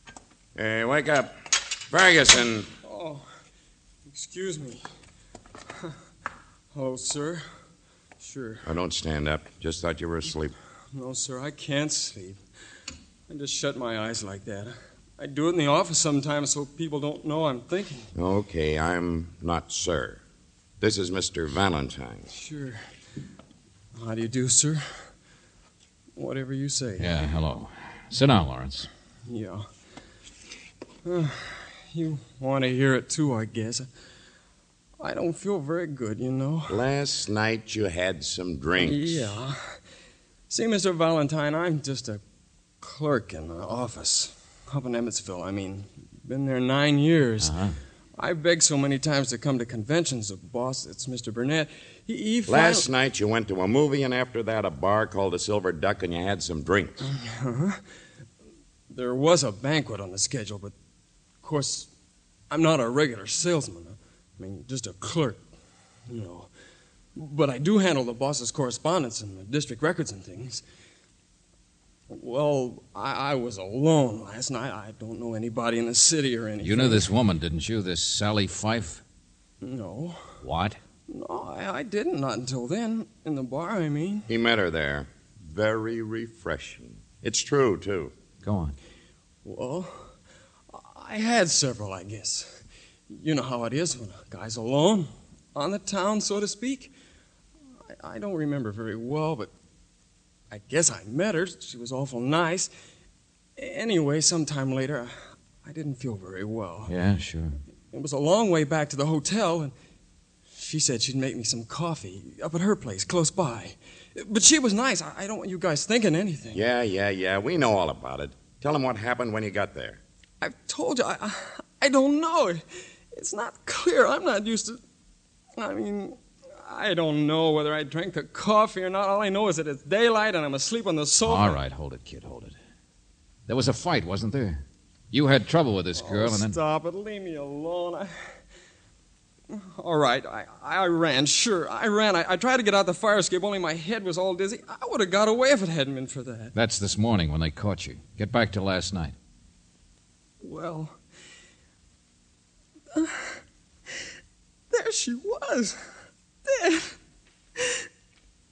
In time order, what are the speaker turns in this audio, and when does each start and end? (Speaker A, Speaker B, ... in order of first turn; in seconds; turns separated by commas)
Speaker A: 0.6-1.3, Speaker A: 1.9-2.7, Speaker B: 2.8-3.2, Speaker B: 4.1-4.8, Speaker B: 6.7-7.4, Speaker B: 8.2-8.6, Speaker A: 8.6-10.5, Speaker B: 10.9-12.4, Speaker B: 13.3-18.1, Speaker A: 18.1-20.2, Speaker A: 20.8-22.3, Speaker B: 22.3-22.8, Speaker B: 23.9-25.1, Speaker B: 26.1-27.1, Speaker C: 27.0-28.9, Speaker B: 29.3-29.6, Speaker B: 31.0-33.9, Speaker B: 35.0-36.8, Speaker A: 36.7-39.4, Speaker B: 38.8-39.8, Speaker B: 40.5-42.2, Speaker B: 42.8-47.5, Speaker C: 47.4-47.8, Speaker B: 48.2-52.9, Speaker A: 52.5-57.0, Speaker B: 57.0-57.8, Speaker B: 58.9-60.7, Speaker B: 61.4-61.9, Speaker B: 62.5-65.4, Speaker B: 66.1-66.5, Speaker B: 67.2-70.6, Speaker B: 72.1-77.1, Speaker C: 76.6-79.0, Speaker B: 79.6-80.3, Speaker C: 80.4-80.8, Speaker B: 81.1-84.3, Speaker A: 84.3-88.1, Speaker C: 88.4-88.7, Speaker B: 89.4-90.1, Speaker B: 90.7-92.5, Speaker B: 93.1-96.9, Speaker B: 97.9-99.5, Speaker B: 100.5-102.7, Speaker B: 103.6-106.9, Speaker C: 106.9-107.6, Speaker B: 107.9-109.7, Speaker B: 110.5-116.6, Speaker A: 116.5-120.0, Speaker B: 120.4-124.8, Speaker B: 125.6-131.6, Speaker C: 131.2-132.6, Speaker C: 133.5-136.6, Speaker B: 136.0-138.3, Speaker B: 139.5-146.5, Speaker C: 146.5-149.1, Speaker B: 150.4-151.0, Speaker B: 152.9-153.4, Speaker B: 154.7-155.8, Speaker B: 156.4-157.0, Speaker B: 157.6-157.8